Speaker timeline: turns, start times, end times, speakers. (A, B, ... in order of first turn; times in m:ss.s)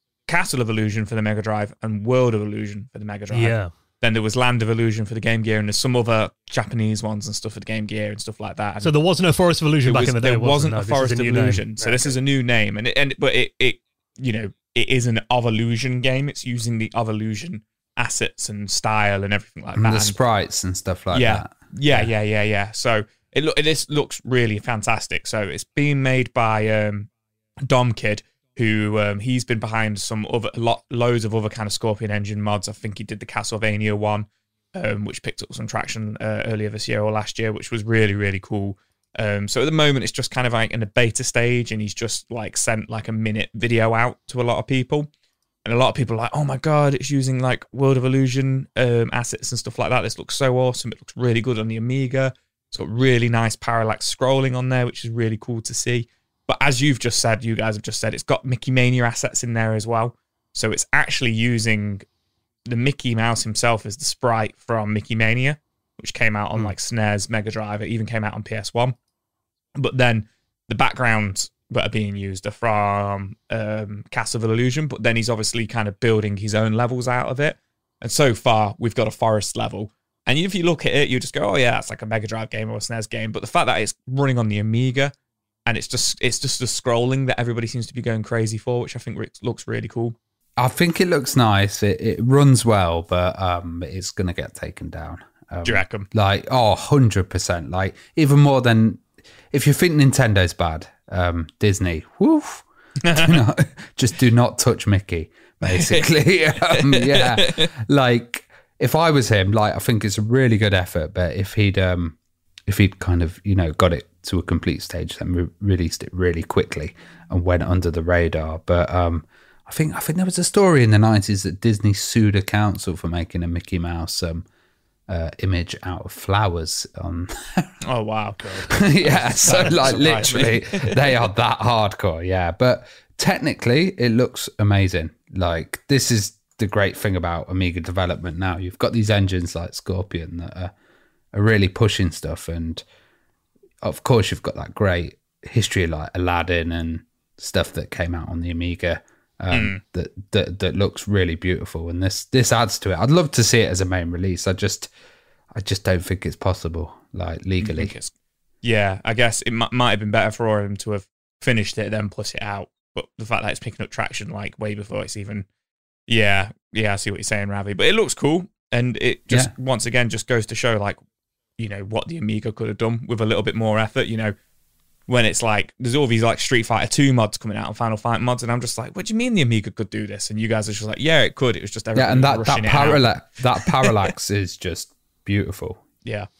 0:00.3-0:08.9 A
0:03.3-0:03.7 B
0:08.8-0:12.1 B
0:09.8-0:20.2 A
0:19.8-0:22.1 C
0:21.1-0:27.1 A
0:27.6-0:45.1 A
0:45.6-1:02.0 A
1:02.7-1:09.0 A
1:09.8-1:25.1 A
1:25.6-1:30.2 A
1:30.6-1:52.2 C
1:35.6-1:36.1 A
1:43.0-1:43.4 A
1:45.6-1:47.7 A
1:52.7-2:04.4 C
2:05.1-2:07.8 C
2:07.8-2:11.2 A
2:08.4-2:10.1 B
2:08.7-2:20.7 C
2:21.3-2:22.8 C
2:23.8-2:34.9 C
2:29.5-2:29.8 A
2:35.5-2:37.9 C
2:37.6-2:38.1 A
2:38.6-2:45.5 A
2:46.1-2:51.0 A
2:51.6-2:54.3 A
2:55.1-3:04.1 A
3:01.9-3:05.8 C